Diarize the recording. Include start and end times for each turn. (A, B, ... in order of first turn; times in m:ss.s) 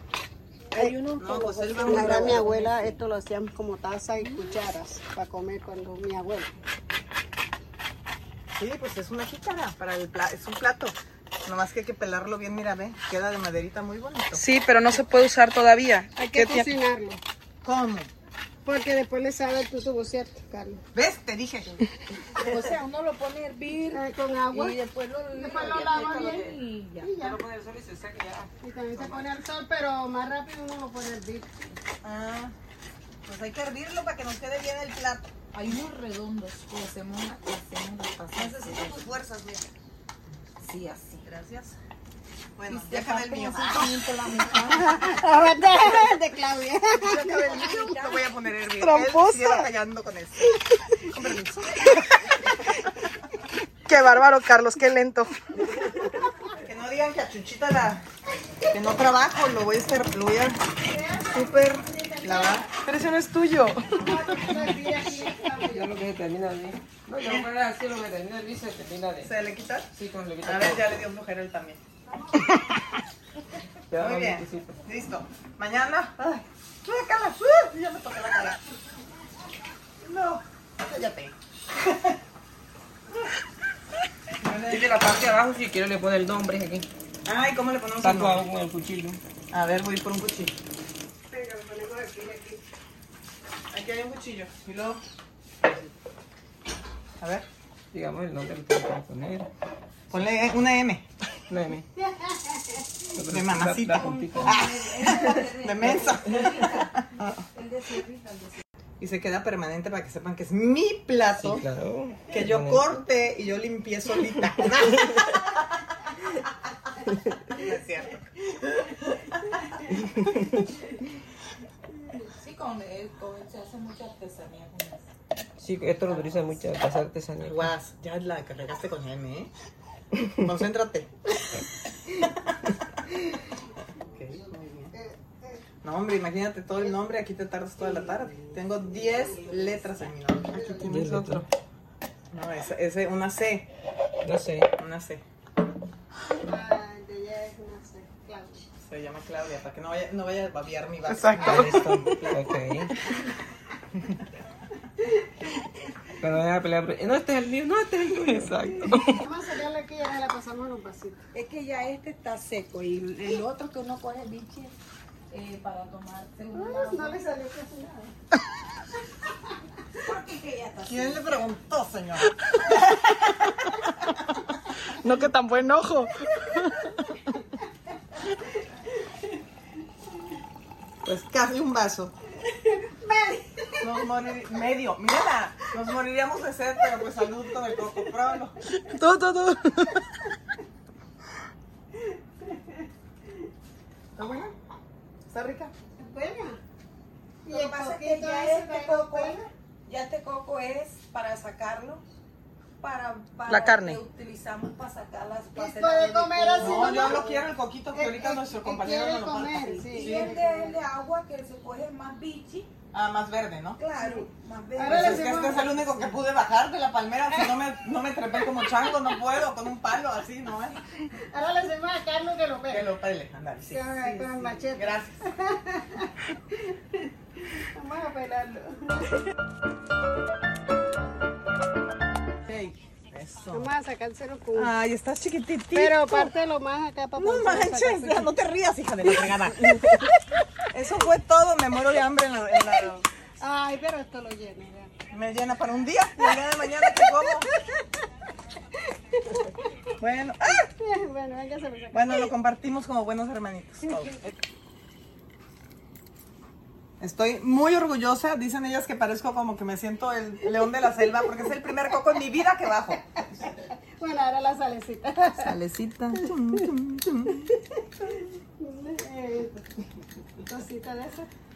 0:00.7-0:03.0 A
0:00.7-0:01.0 B
0:01.2-0:02.4 C
0:01.8-0:06.6 B
0:04.2-0:04.5 A
0:08.6-0:14.4 C
0:14.4-0:16.6 D
0:15.2-0:16.3 A
0:16.2-0:17.2 B
0:17.6-0:18.1 C
0:18.6-0:20.8 B
0:20.9-0:21.8 C
0:22.3-0:27.1 A
0:23.9-0:24.8 B
0:25.3-0:27.4 B
0:26.2-0:26.4 E
0:27.1-0:29.2 E
0:28.6-0:31.7 B
0:32.0-0:32.5 C
0:33.2-0:35.3 C
0:35.5-0:39.0 A
0:38.3-0:39.7 C
0:40.6-0:41.7 A
0:42.6-0:43.9 C
0:42.7-0:45.1 A
0:44.6-0:47.4 B
0:47.0-0:50.5 C
0:47.3-0:48.2 A
0:48.8-0:49.6 A
0:51.0-0:52.0 C
0:53.9-0:55.3 A
0:55.6-0:56.4 B
0:56.6-0:58.0 C
0:58.7-1:00.6 C
1:00.8-1:02.7 B
1:01.3-1:02.7 C
1:02.8-1:03.1 D
1:02.9-1:04.2 A
1:03.9-1:06.0 B
1:05.7-1:09.3 E
1:09.2-1:09.9 C
1:09.9-1:11.0 E
1:10.4-1:11.8 C
1:12.2-1:12.5 B
1:13.9-1:14.8 E
1:13.9-1:18.6 C
1:20.0-1:22.2 C
1:24.4-1:25.0 C
1:24.6-1:26.9 E
1:27.2-1:28.4 C
1:28.0-1:29.2 E
1:29.5-1:30.6 C
1:31.3-1:32.6 B
1:33.7-1:35.0 C
1:35.6-1:35.9 E
1:37.2-1:37.5 C
1:37.9-1:39.5 E
1:40.1-1:41.1 C
1:40.1-1:40.6 E
1:41.5-1:41.9 E
1:42.0-1:42.9 B
1:43.1-1:44.6 E
1:43.2-1:47.4 C
1:43.9-1:48.6 A
1:49.0-1:51.6 C
1:51.4-1:53.0 E
1:52.3-1:55.7 C
1:57.5-1:59.4 C
2:00.2-2:00.5 E
2:02.1-2:05.1 A
2:05.6-2:07.7 E
2:07.4-2:09.5 C
2:10.2-2:11.1 C
2:14.1-2:14.9 C
2:14.1-2:15.6 B
2:15.8-2:21.4 C
2:17.9-2:19.8 B
2:20.5-2:20.9 B
2:20.8-2:21.5 E
2:22.3-2:23.7 C
2:24.2-2:24.7 E
2:24.8-2:25.2 C
2:26.4-2:28.6 B
2:28.8-2:32.5 C
2:31.2-2:31.7 A
2:31.3-2:32.9 E
2:36.2-2:39.2 E
2:38.8-2:39.2 A
2:38.8-2:41.2 B
2:41.3-2:44.8 A
2:45.3-2:47.2 A
2:46.5-2:48.1 B
2:50.0-2:51.4 A
2:50.8-2:52.3 C
2:54.8-2:56.9 A
3:01.0-3:02.1 C
3:02.4-3:04.4 B
3:03.8-3:08.6 C
3:08.7-3:10.0 A
3:12.4-3:12.8 B
3:14.2-3:14.5 C
3:15.3-3:15.7 C
3:16.0-3:16.6 B
3:17.4-3:19.5 B
3:17.5-3:22.0 A
3:22.8-3:27.1 A
3:23.5-3:24.0 C
3:25.5-3:30.8 B
3:26.6-3:30.3 C
3:29.9-3:32.7 A
3:32.9-3:33.8 C
3:33.8-3:36.2 A
3:34.0-3:35.6 B
3:34.8-3:40.8 C
3:41.0-3:42.9 B
3:42.7-3:43.9 C
3:43.7-3:49.2 B
3:44.0-3:44.6 A
3:44.7-3:45.2 C
3:52.4-3:53.7 C
3:53.5-3:54.7 B
3:54.5-3:56.3 C
3:55.7-3:58.3 B
3:57.2-3:59.8 C
3:59.8-4:00.0 B
4:00.7-4:03.1 C
4:03.4-4:04.9 B
4:05.1-4:07.5 C
4:06.2-4:07.5 B
4:09.1-4:09.5 B
4:10.0-4:10.7 C
4:10.8-4:12.3 B
4:11.9-4:14.2 C
4:17.0-4:23.0 C
4:23.5-4:25.6 B
4:25.3-4:27.5 C
4:27.3-4:29.6 B
4:30.4-4:31.3 B